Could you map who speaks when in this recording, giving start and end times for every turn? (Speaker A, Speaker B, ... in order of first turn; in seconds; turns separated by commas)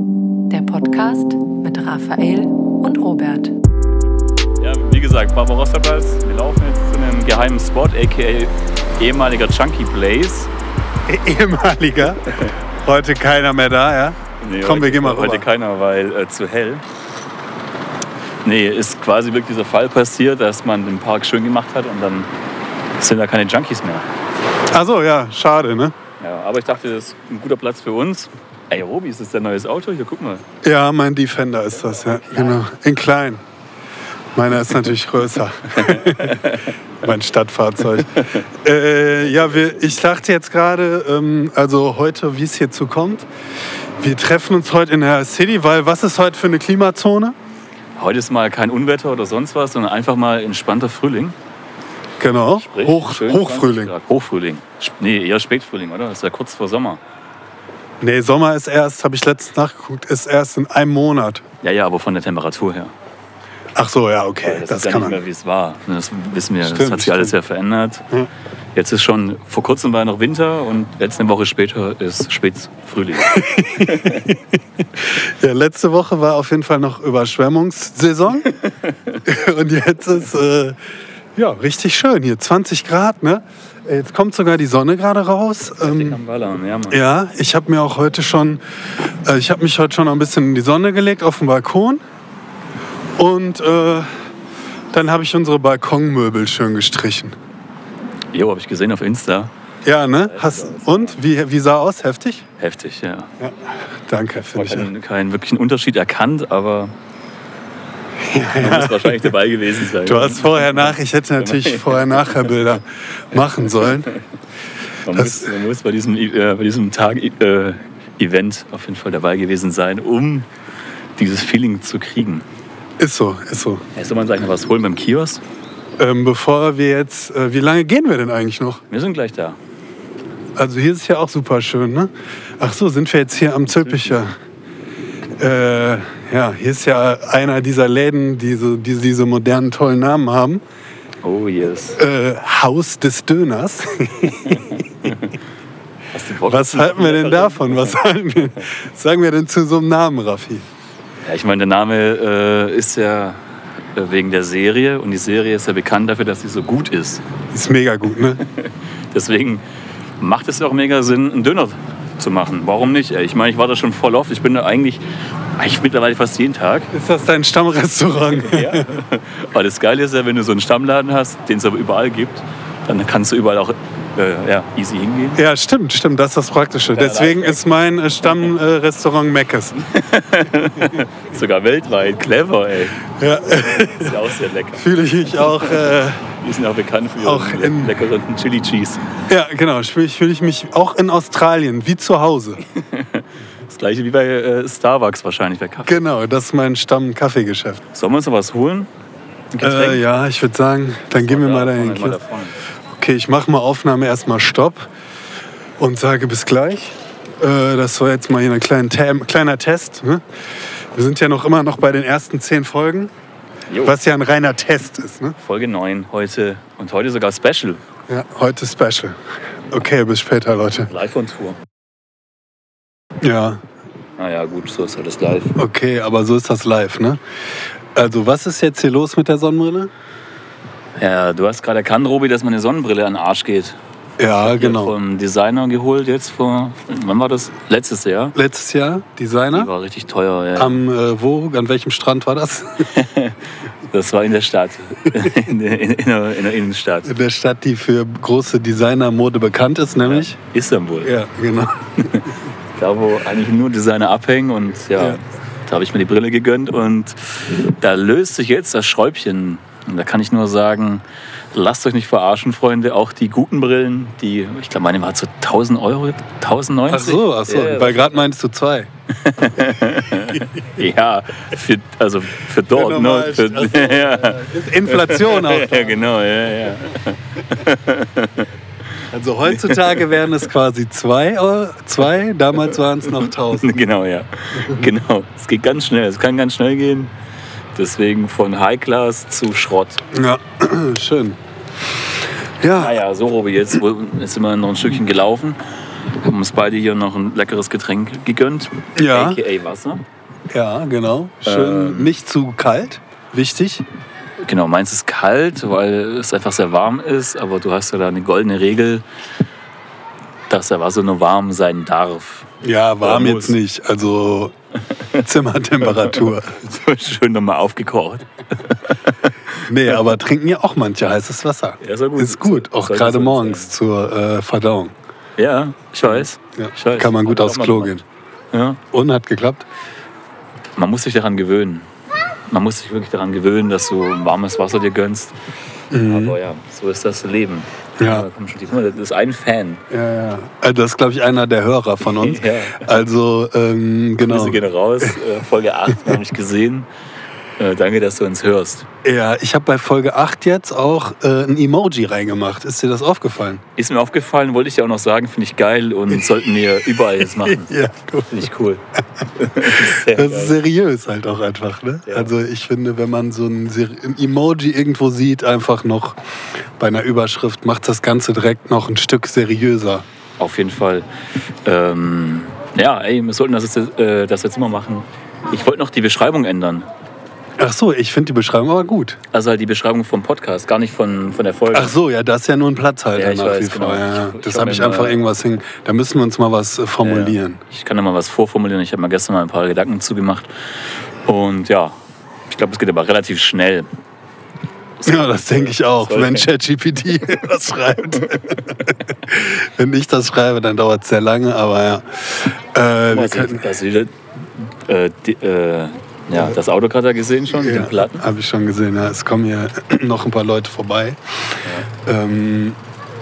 Speaker A: 0.5-3.5, Speaker B: 4.6-10.5, Speaker C: 11.1-15.4, Speaker B: 14.4-16.8, Speaker B: 18.4-22.3, Speaker B: 23.0-24.1, Speaker C: 24.7-25.9, Speaker B: 26.2-30.4, Speaker C: 30.6-33.4, Speaker B: 32.3-32.6, Speaker C: 34.3-43.3, Speaker B: 35.7-36.7, Speaker C: 44.0-47.3, Speaker B: 48.0-51.4, Speaker C: 52.2-53.9, Speaker B: 52.6-57.0, Speaker C: 58.0-61.4, Speaker B: 61.6-62.9, Speaker C: 63.8-65.2, Speaker B: 64.4-68.0, Speaker C: 66.6-67.3, Speaker B: 68.7-74.2, Speaker C: 73.3-74.4, Speaker C: 75.0-78.5, Speaker B: 78.5-79.2, Speaker C: 79.2-80.8, Speaker C: 81.3-86.2, Speaker B: 85.8-87.0, Speaker C: 86.9-88.6, Speaker C: 89.2-92.0, Speaker C: 93.2-94.1, Speaker C: 94.9-97.3, Speaker B: 98.3-99.5, Speaker C: 99.8-102.5, Speaker B: 100.3-101.2, Speaker B: 102.6-103.3, Speaker C: 103.4-104.9, Speaker B: 104.4-106.9, Speaker C: 108.2-109.3, Speaker B: 108.5-112.3, Speaker C: 110.0-114.1, Speaker B: 115.0-120.5, Speaker C: 115.1-115.5, Speaker B: 121.2-122.4, Speaker C: 123.0-123.8, Speaker B: 123.9-125.4, Speaker C: 126.0-128.8, Speaker B: 128.9-129.6, Speaker C: 130.6-134.3, Speaker B: 133.8-134.1, Speaker C: 135.4-140.6, Speaker B: 141.2-142.0, Speaker C: 142.0-144.7, Speaker B: 146.1-148.0, Speaker C: 146.4-150.6, Speaker B: 151.2-153.4, Speaker B: 153.9-157.2, Speaker C: 157.5-158.4, Speaker B: 158.4-159.6, Speaker B: 160.2-165.0, Speaker B: 165.6-166.9, Speaker C: 166.9-168.9, Speaker B: 168.3-175.4, Speaker C: 175.3-179.8, Speaker B: 176.9-177.6, Speaker B: 179.8-185.9, Speaker C: 183.2-184.2, Speaker C: 184.8-186.2, Speaker B: 186.4-189.0, Speaker C: 187.2-187.9, Speaker C: 189.3-192.6, Speaker B: 192.7-196.0, Speaker C: 195.9-197.8, Speaker B: 197.9-198.9, Speaker B: 199.5-200.0, Speaker C: 199.6-202.2, Speaker B: 201.1-202.6, Speaker C: 203.0-204.9, Speaker C: 205.8-210.2, Speaker C: 210.9-213.1, Speaker B: 213.7-213.9, Speaker C: 213.8-215.3, Speaker B: 215.4-217.8, Speaker C: 218.1-219.2, Speaker C: 219.7-220.9, Speaker B: 220.9-221.6, Speaker C: 223.2-223.6, Speaker B: 224.2-225.6, Speaker C: 225.6-227.2, Speaker C: 227.9-229.9, Speaker B: 231.0-233.8, Speaker C: 234.2-234.9, Speaker B: 234.4-238.4, Speaker C: 238.3-239.7, Speaker B: 239.5-240.8, Speaker C: 240.6-242.9, Speaker B: 242.9-247.1, Speaker C: 247.0-250.3, Speaker B: 250.0-251.1, Speaker C: 251.0-252.1, Speaker B: 252.0-268.2, Speaker C: 266.9-268.9, Speaker B: 269.1-278.5, Speaker C: 272.7-276.1, Speaker C: 279.1-283.7, Speaker B: 279.5-280.2, Speaker B: 283.1-287.1, Speaker C: 284.6-284.9, Speaker B: 287.7-290.0, Speaker C: 290.1-291.4, Speaker C: 292.6-293.0, Speaker B: 292.7-295.6, Speaker B: 296.2-300.0, Speaker C: 299.0-299.4, Speaker C: 300.5-303.8, Speaker B: 301.4-302.1, Speaker B: 304.4-309.0, Speaker B: 310.5-312.5, Speaker C: 312.6-314.5, Speaker B: 313.0-313.6, Speaker C: 315.2-316.6, Speaker B: 316.0-319.7, Speaker C: 319.6-324.9, Speaker B: 321.8-323.7, Speaker B: 325.4-328.0, Speaker C: 326.0-328.0, Speaker B: 328.5-328.8, Speaker C: 328.9-329.6, Speaker B: 330.8-331.9, Speaker B: 332.5-335.3, Speaker C: 335.9-336.4, Speaker B: 336.0-339.8, Speaker C: 338.0-338.3, Speaker C: 339.9-345.2, Speaker B: 342.0-342.9, Speaker B: 344.2-346.9, Speaker B: 347.6-348.9, Speaker C: 349.0-353.6, Speaker B: 353.8-357.7, Speaker C: 357.2-358.5, Speaker B: 358.3-358.8, Speaker B: 359.3-360.6, Speaker C: 359.6-366.1, Speaker B: 362.1-362.3, Speaker C: 366.8-370.1, Speaker B: 370.4-371.1, Speaker B: 371.6-376.9, Speaker C: 377.6-379.2, Speaker B: 379.3-381.9, Speaker C: 381.7-387.6, Speaker B: 383.1-385.2, Speaker B: 387.0-390.5, Speaker B: 391.2-391.9, Speaker B: 392.5-393.9, Speaker B: 395.0-396.5, Speaker C: 395.1-403.7, Speaker B: 403.1-408.2, Speaker C: 407.5-411.2, Speaker B: 411.6-411.9, Speaker C: 412.0-412.8